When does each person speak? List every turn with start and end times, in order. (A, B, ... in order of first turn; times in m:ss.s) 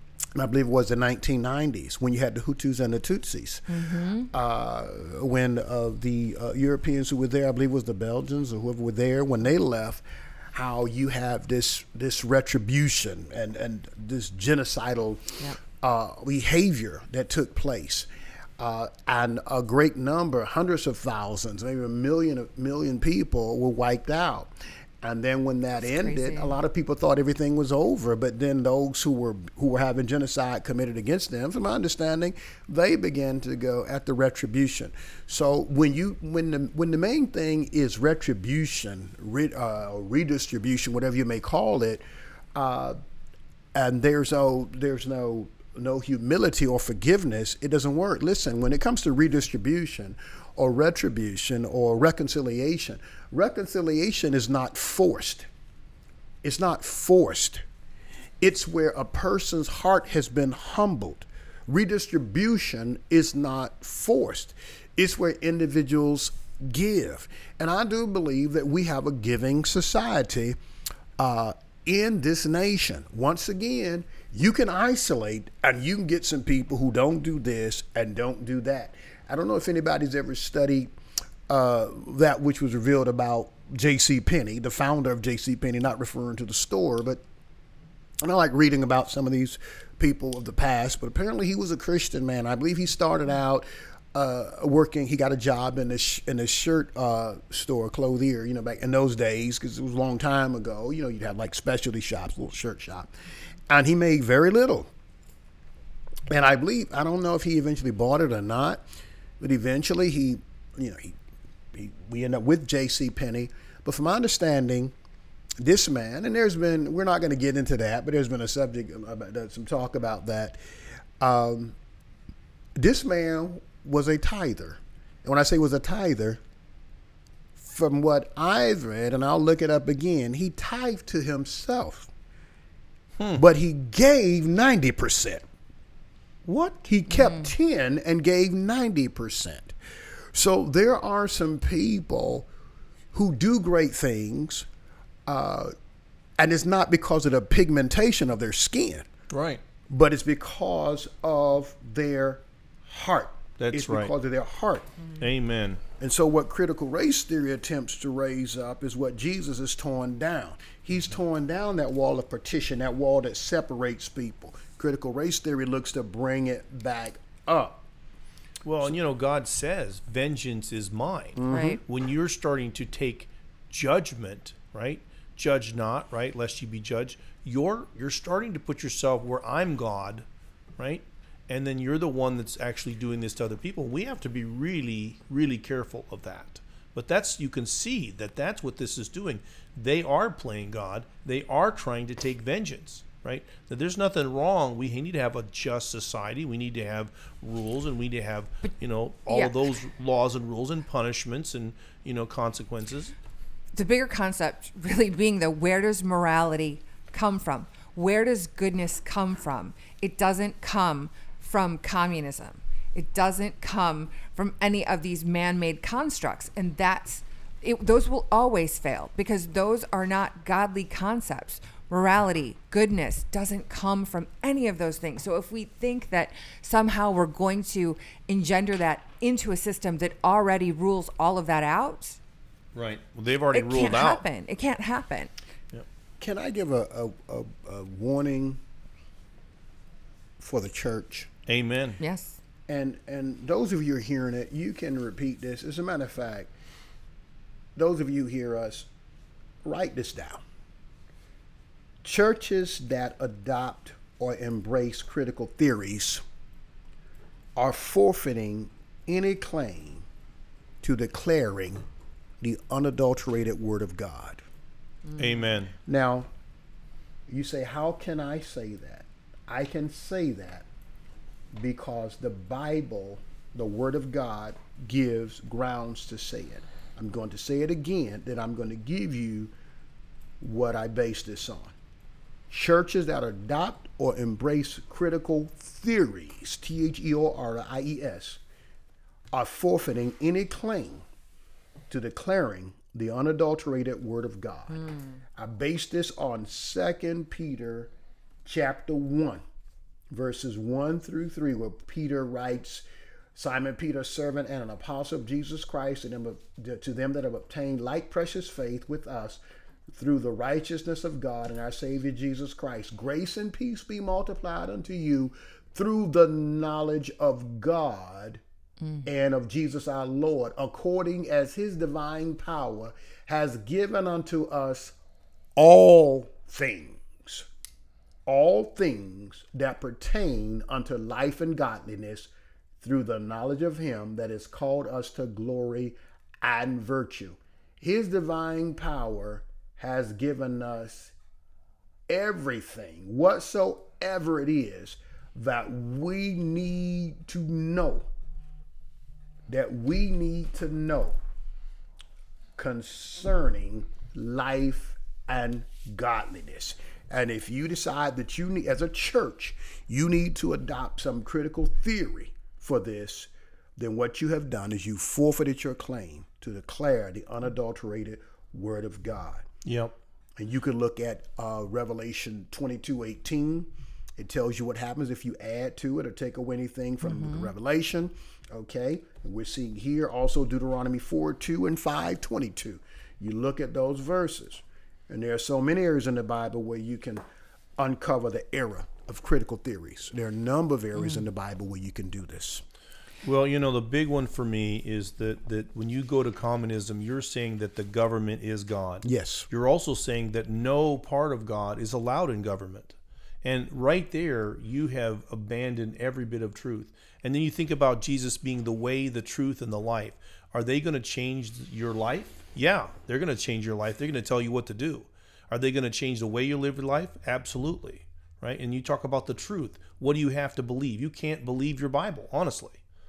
0:00.3-0:03.6 A
0:03.7-0:04.3 B
0:04.3-0:18.1 A
0:18.6-0:42.0 A
0:25.9-0:26.6 B
0:42.5-0:43.0 A
0:43.7-0:55.5 A
0:56.4-0:57.6 A
0:58.4-1:10.6 A
1:11.2-1:20.9 A
1:21.5-1:27.2 A
1:28.2-1:43.1 A
1:43.7-1:44.9 A
1:46.3-1:48.8 A
1:49.4-1:51.2 A
1:51.7-1:54.9 A
1:55.6-2:00.6 A
2:01.2-2:01.8 A
2:02.8-2:06.4 A
2:07.6-2:12.1 A
2:13.3-2:15.4 A
2:16.4-2:19.7 A
2:17.1-2:17.5 B
2:20.3-2:22.5 A
2:23.1-2:24.7 A
2:25.2-2:25.7 A
2:26.4-2:29.1 A
2:29.3-2:29.6 C
2:29.9-2:34.9 A
2:33.6-2:34.1 C
2:35.2-2:35.8 C
2:36.0-2:47.8 A
2:48.6-3:00.2 C
2:51.4-2:51.8 A
2:51.5-2:51.8 B
3:00.8-3:23.1 C
3:19.3-3:19.5 B
3:23.7-3:52.2 B
3:52.7-3:54.2 C
3:53.5-3:55.3 B
3:56.2-3:58.6 A
4:00.4-4:01.3 A
4:01.5-4:02.0 C
4:02.0-4:02.4 B
4:02.7-4:06.5 A
4:07.8-4:08.9 A
4:09.6-4:10.4 A
4:12.0-4:16.2 A
4:17.6-4:20.1 A
4:20.8-4:21.8 A
4:22.4-4:24.4 A
4:25.1-4:25.4 B
4:25.2-4:25.7 C
4:25.8-4:26.3 A
4:27.3-4:30.7 A
4:31.5-4:39.5 A
4:40.4-4:41.7 A
4:42.5-4:48.4 A
4:49.3-4:51.0 A
4:51.9-4:57.9 A
4:54.7-4:55.2 B
4:58.4-4:59.4 A
5:00.1-5:18.4 A
5:19.0-5:24.9 A
5:25.6-5:27.5 A
5:28.2-5:32.3 A
5:32.8-5:41.1 A
5:42.1-5:48.1 A
5:49.5-5:51.2 A
5:52.6-6:09.4 A
6:09.6-6:10.0 C
6:10.4-6:27.2 A
6:17.0-6:17.5 B
6:27.8-6:32.6 A
6:31.0-6:31.2 B
6:33.2-7:02.8 C
6:39.0-6:39.5 A